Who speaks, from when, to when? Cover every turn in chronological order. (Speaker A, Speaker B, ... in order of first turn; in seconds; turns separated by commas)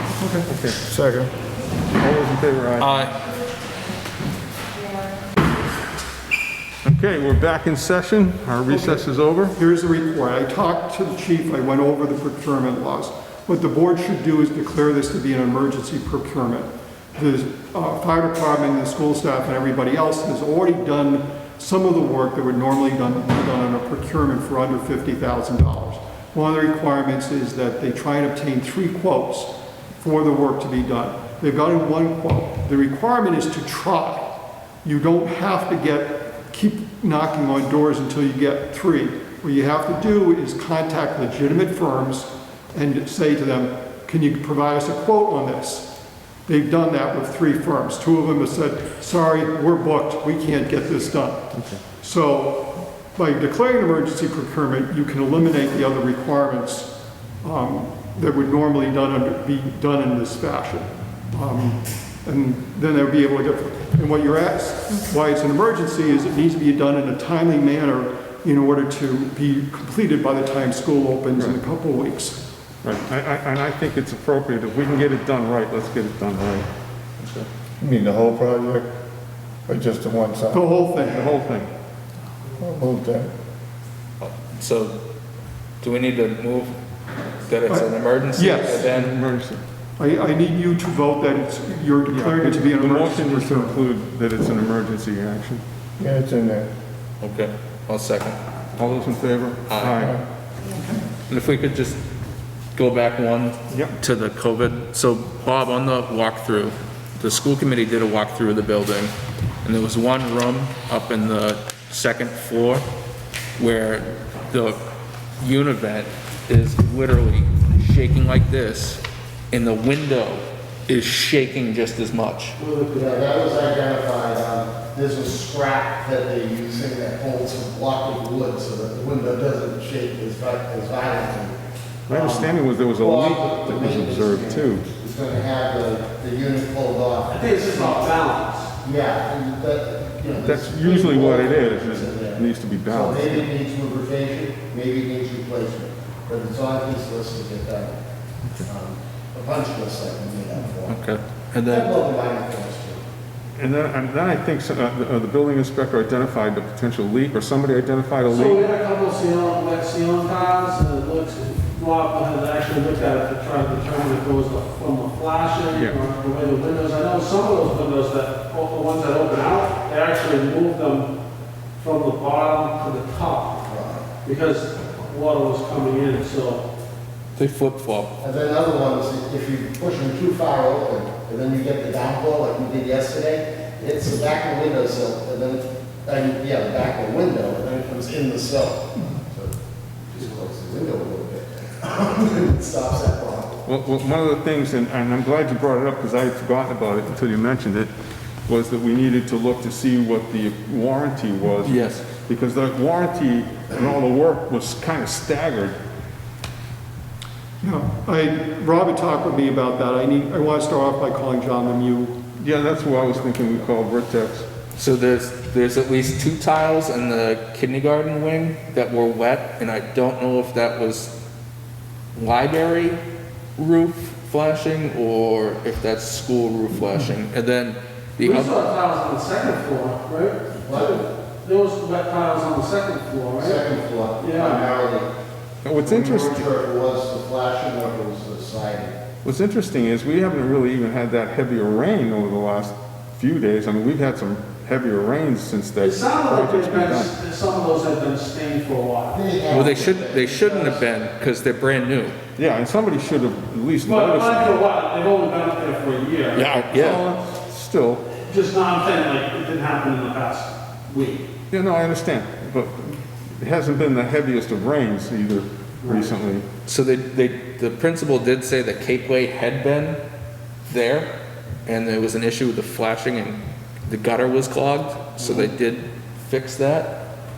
Speaker A: 0.2-0.5, Speaker B: 0.5-0.9, Speaker C: 0.8-1.3, Speaker B: 2.0-2.9, Speaker D: 2.8-3.1, Speaker B: 6.8-9.6, Speaker A: 9.6-45.9, Speaker A: 46.5-56.9, Speaker B: 51.5-51.8, Speaker A: 57.4-72.4, Speaker B: 72.8-76.7, Speaker D: 77.2-77.5, Speaker C: 77.8-78.9, Speaker C: 79.7-80.7, Speaker A: 80.5-81.4, Speaker B: 81.0-81.7, Speaker C: 82.6-83.3, Speaker D: 84.2-85.0, Speaker D: 85.8-86.8, Speaker D: 87.5-89.2, Speaker A: 87.7-88.9, Speaker B: 88.9-89.6, Speaker A: 90.0-93.8, Speaker B: 92.1-95.6, Speaker C: 96.0-96.7, Speaker D: 97.2-98.4, Speaker B: 98.8-100.2, Speaker D: 99.7-100.0, Speaker D: 101.3-102.0, Speaker D: 102.8-112.8, Speaker B: 103.7-104.0, Speaker D: 113.6-114.9, Speaker D: 115.4-122.6, Speaker E: 122.6-123.7, Speaker F: 122.9-131.6, Speaker B: 132.1-134.9, Speaker F: 132.1-138.2, Speaker E: 137.3-138.7, Speaker F: 138.8-147.9, Speaker B: 140.4-143.5, Speaker F: 148.6-151.0, Speaker D: 150.9-151.9, Speaker F: 151.7-153.0, Speaker B: 153.6-158.7, Speaker E: 158.3-171.1, Speaker B: 165.7-166.0, Speaker E: 171.8-173.6, Speaker F: 173.7-174.1, Speaker E: 174.2-176.6, Speaker D: 177.4-178.1, Speaker F: 178.2-189.5, Speaker F: 190.1-193.6, Speaker B: 193.7-197.9, Speaker B: 198.5-205.8, Speaker D: 201.6-202.0, Speaker A: 207.6-212.2, Speaker B: 212.4-214.5, Speaker D: 214.8-221.1, Speaker D: 222.2-223.0, Speaker D: 223.6-228.6, Speaker E: 228.2-233.7, Speaker F: 230.6-231.1, Speaker F: 233.4-235.1, Speaker E: 234.2-234.7, Speaker B: 235.6-236.4, Speaker F: 235.8-239.0, Speaker B: 239.2-247.2, Speaker E: 245.8-249.2, Speaker F: 249.1-250.8, Speaker D: 249.5-252.2, Speaker B: 252.4-254.6, Speaker E: 253.8-256.6, Speaker D: 256.4-257.0, Speaker B: 256.8-258.0, Speaker E: 258.2-261.2, Speaker B: 261.5-266.5, Speaker E: 265.8-266.1, Speaker D: 266.7-270.0, Speaker D: 270.7-271.1, Speaker D: 271.6-276.9